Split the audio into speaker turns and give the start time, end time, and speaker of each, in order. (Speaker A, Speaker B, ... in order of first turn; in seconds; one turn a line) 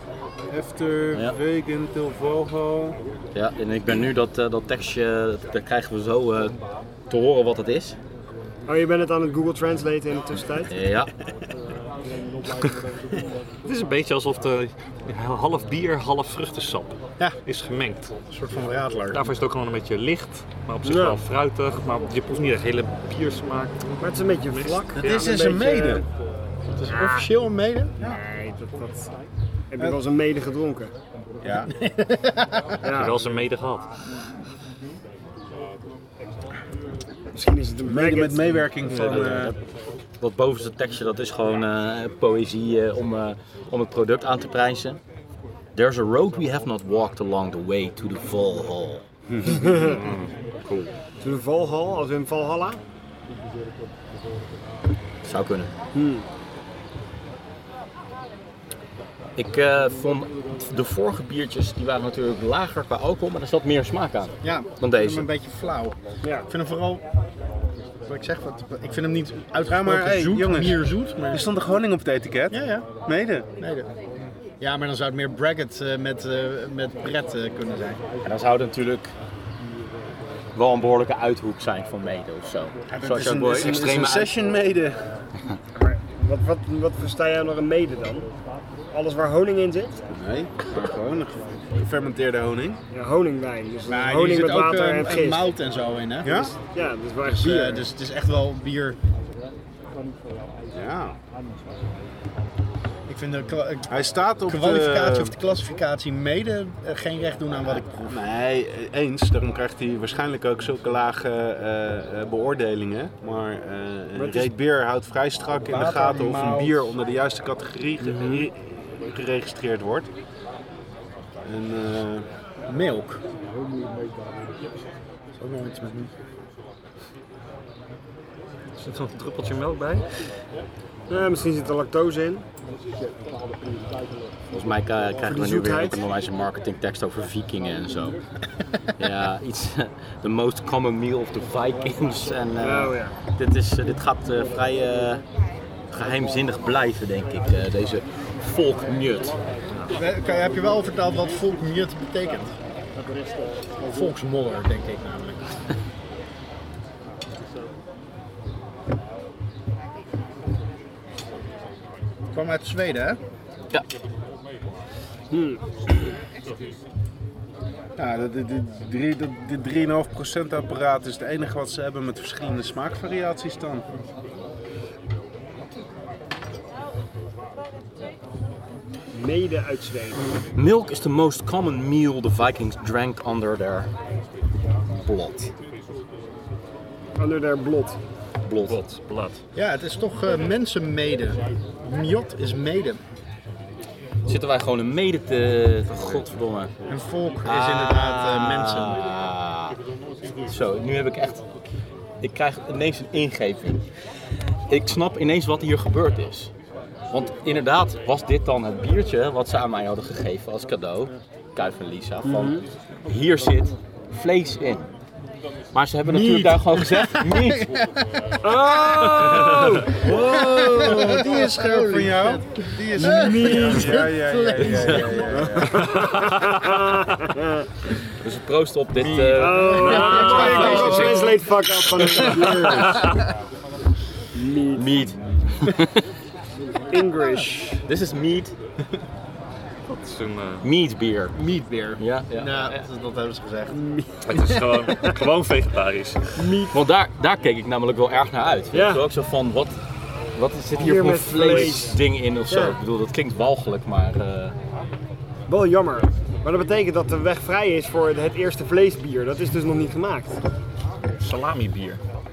Speaker A: 0.5-3.0
Speaker B: 3.3-6.5
Speaker B: 7.1-8.0
Speaker C: 8.7-10.7
Speaker B: 10.7-11.1
Speaker D: 13.7-18.1
Speaker E: 18.3-19.3
Speaker D: 19.1-23.8
Speaker C: 20.8-21.2
Speaker C: 24.0-26.0
Speaker D: 24.5-25.4
Speaker A: 25.0-26.0
Speaker E: 26.7-27.9
Speaker C: 26.9-27.3
Speaker C: 28.0-29.1
Speaker C: 29.7-30.9
Speaker A: 31.4-31.7
Speaker E: 31.7-32.8
Speaker C: 32.8-33.2
Speaker D: 32.9-33.9
Speaker C: 37.3-38.7
Speaker A: 37.9-39.5
Speaker D: 39.0-39.3
Speaker B: 40.2-45.0
Speaker B: 45.7-49.0
Speaker A: 49.3-49.6
Speaker C: 49.5-50.0
Speaker B: 49.6-50.9
Speaker C: 51.2-52.8
Speaker B: 55.2-55.7
Speaker C: 55.9-56.2
Speaker B: 59.4-65.3
Speaker E: 64.4-66.0
Speaker C: 66.2-66.5
Speaker E: 66.5-67.0
Speaker E: 68.0-71.4
Speaker A: 69.7-73.5
Speaker E: 72.5-72.9
Speaker E: 73.6-73.9
Speaker E: 74.6-78.0
Speaker B: 78.2-79.1
Speaker B: 80.5-84.3
Speaker A: 82.9-85.0
Speaker C: 85.7-88.3
Speaker C: 88.9-90.0
Speaker A: 90.1-92.8
Speaker C: 92.9-95.5
Speaker E: 93.9-96.5
Speaker A: 96.2-96.5
Speaker C: 96.7-97.9
Speaker E: 97.2-99.0
Speaker A: 100.7-101.2
Speaker E: 103.1-103.9
Speaker A: 103.9-105.3
Speaker E: 104.4-108.2
Speaker A: 108.1-118.5
Speaker C: 114.1-114.5
Speaker E: 115.6-116.9
Speaker C: 118.0-118.5
Speaker A: 119.1-120.1
Speaker A: 121.4-122.3
Speaker E: 122.7-123.2
Speaker E: 125.4-126.1
Speaker D: 128.8-130.0
Speaker C: 131.1-132.4
Speaker B: 134.5-138.2
Speaker C: 135.2-136.0
Speaker B: 139.0-145.2
Speaker C: 142.6-143.2
Speaker B: 145.9-149.4
Speaker E: 149.9-152.5
Speaker E: 153.8-155.5
Speaker E: 162.3-163.2
Speaker C: 165.3-165.6
Speaker A: 168.0-173.8
Speaker C: 179.1-180.2
Speaker B: 180.5-183.9
Speaker B: 185.0-185.5
Speaker C: 187.2-188.0
Speaker B: 188.4-188.8
Speaker D: 188.7-189.4
Speaker E: 189.5-193.0
Speaker B: 194.2-196.7
Speaker E: 196.9-199.1
Speaker B: 197.4-199.8
Speaker B: 200.4-201.4
Speaker B: 202.2-203.8
Speaker B: 204.7-206.5
Speaker B: 207.1-214.9
Speaker C: 212.2-212.6
Speaker B: 215.7-217.7
Speaker E: 216.1-225.6
Speaker C: 218.4-219.9
Speaker A: 219.9-226.1
Speaker C: 222.9-224.0
Speaker C: 225.7-227.7
Speaker B: 228.2-231.2
Speaker E: 228.9-231.3
Speaker C: 229.3-233.2
Speaker A: 230.2-231.2
Speaker C: 234.3-235.1
Speaker B: 234.7-236.0
Speaker C: 236.9-237.8
Speaker B: 237.8-238.5
Speaker D: 239.9-240.7
Speaker B: 240.6-241.3
Speaker E: 241.3-243.8
Speaker B: 242.0-242.8
Speaker C: 243.7-245.2
Speaker D: 244.2-246.4
Speaker C: 246.3-246.7
Speaker B: 246.7-249.7
Speaker C: 248.7-249.0
Speaker B: 250.3-254.6
Speaker C: 250.8-252.8
Speaker C: 255.5-260.4
Speaker D: 261.2-262.0